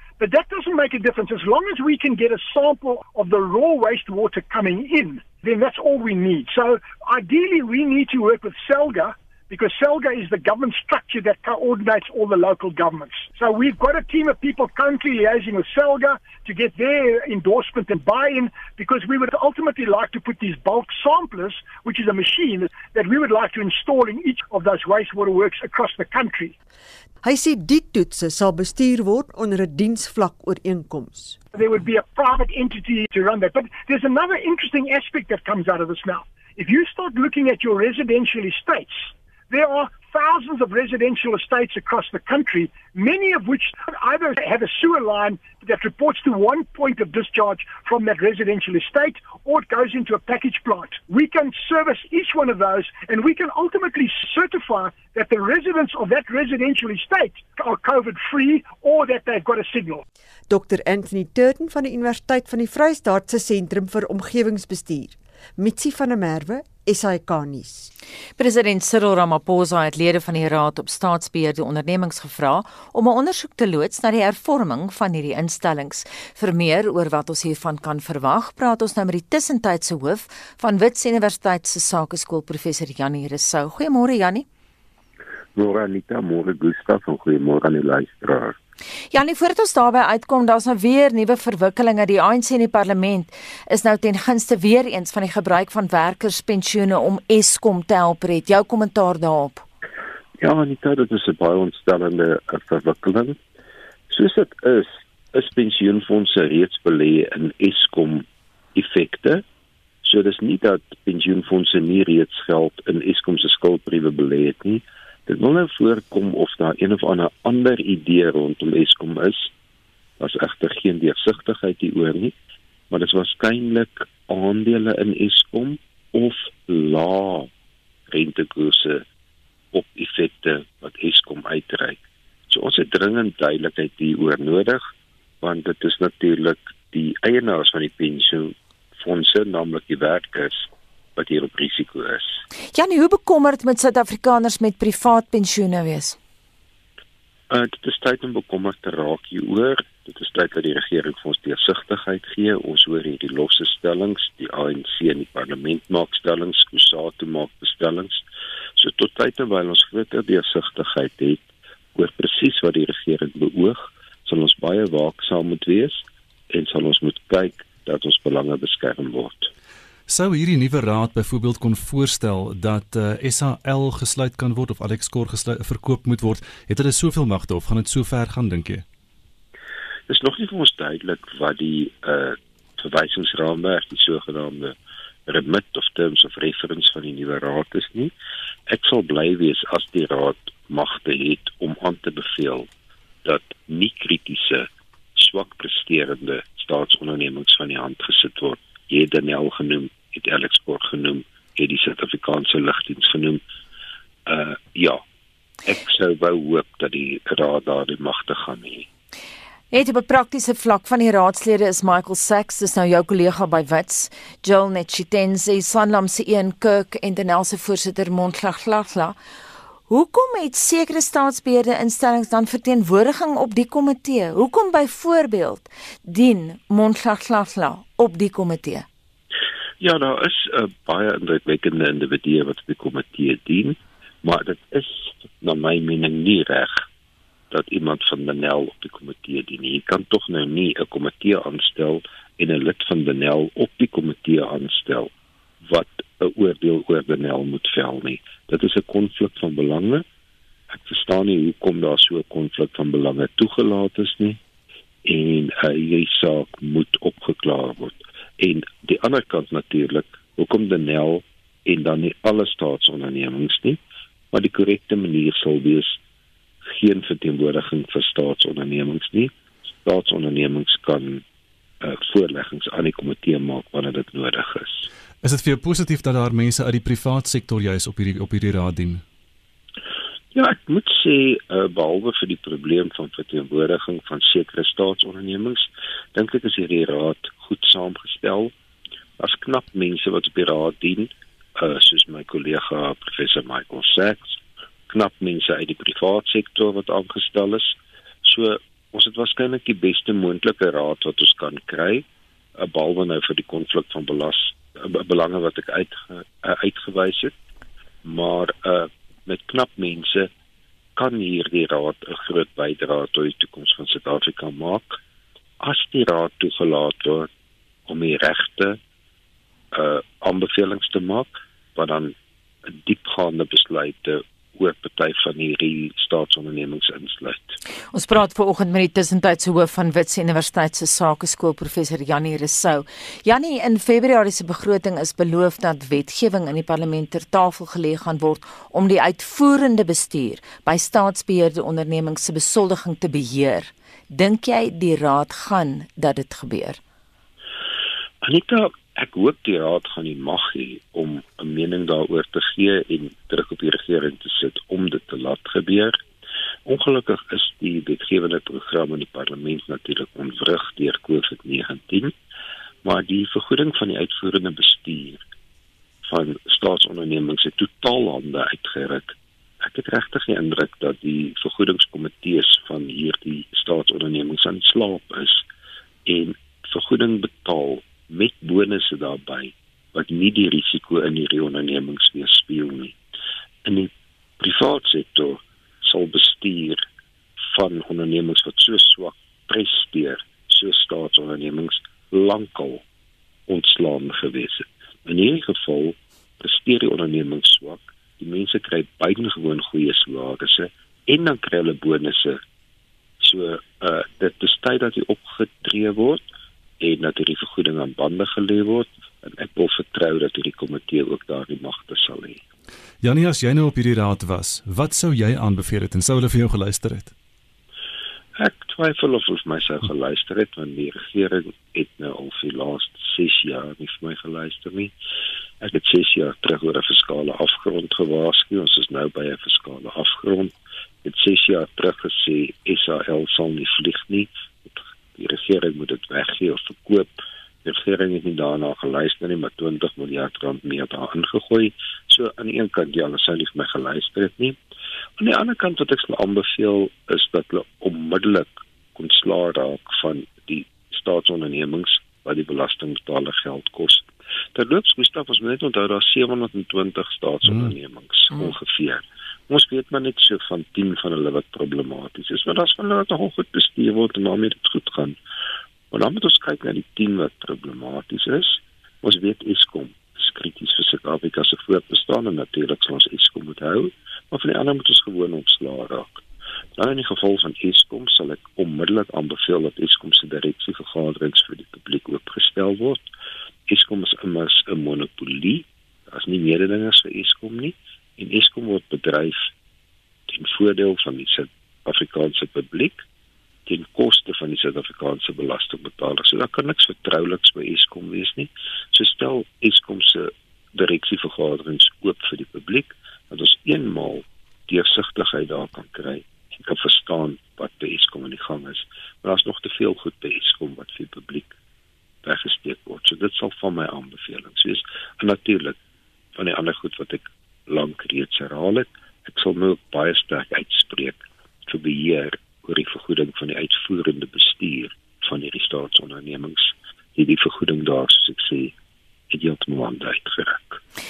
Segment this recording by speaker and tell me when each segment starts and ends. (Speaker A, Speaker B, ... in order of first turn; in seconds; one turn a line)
Speaker A: 0.2-26.5
Speaker B: 27.2-31.4
Speaker A: 31.6-60.0
Speaker B: 60.5-67.9
Speaker C: 68.4-84.5
Speaker D: 85.6-88.6
Speaker C: 89.1-99.6
Speaker D: 100.4-103.4
Speaker D: 104.1-109.4
Speaker D: 110.0-119.5
Speaker D: 120.2-122.3
Speaker D: 122.9-127.5
Speaker D: 128.1-129.0
Speaker D: 129.7-134.8
Speaker D: 135.4-142.4
Speaker C: 142.7-146.2
Speaker D: 147.5-158.2
Speaker D: 158.8-169.5
Speaker E: 170.1-178.8
Speaker D: 180.1-184.8
Speaker D: 185.3-188.1
Speaker D: 188.7-192.7
Speaker D: 193.2-203.4
Speaker D: 204.3-205.0
Speaker D: 205.7-208.9
Speaker C: 209.7-219.2
Speaker C: 219.9-228.9
Speaker D: 229.8-236.8
Speaker D: 237.5-245.1
Speaker D: 245.6-250.1
Speaker D: 250.7-254.4
Speaker D: 255.1-263.8
Speaker D: 264.3-266.0
Speaker D: 266.6-271.2
Speaker D: 271.8-274.9
Speaker E: 275.2-279.0
Speaker D: 280.3-288.5
Speaker D: 289.2-302.1
Speaker D: 302.6-307.4
Speaker D: 308.0-310.3
Speaker D: 311.0-315.0
Speaker D: 315.6-317.3
Speaker D: 317.9-318.8
Speaker D: 319.7-322.2
Speaker D: 322.7-327.6
Speaker C: 327.9-346.8
Speaker D: 348.2-356.0
Speaker D: 356.7-362.1
Speaker D: 362.8-365.2
Speaker D: 366.1-375.4
Speaker D: 376.1-383.0
Speaker D: 383.6-386.8
Speaker D: 387.5-392.8
Speaker D: 393.5-402.4
Speaker D: 403.2-406.3
Speaker D: 406.8-412.4
Speaker E: 413.0-417.1
Speaker D: 418.4-424.9
Speaker D: 425.6-430.5
Speaker D: 431.0-437.1
Speaker D: 437.6-444.6
Speaker D: 445.2-465.2
Speaker E: 457.5-457.7
Speaker D: 465.9-476.2
Speaker D: 476.8-483.1
Speaker D: 483.7-489.5
Speaker D: 490.3-493.0
Speaker D: 493.7-511.5
Speaker D: 512.2-515.8
Speaker D: 516.4-528.7
Speaker D: 529.3-530.8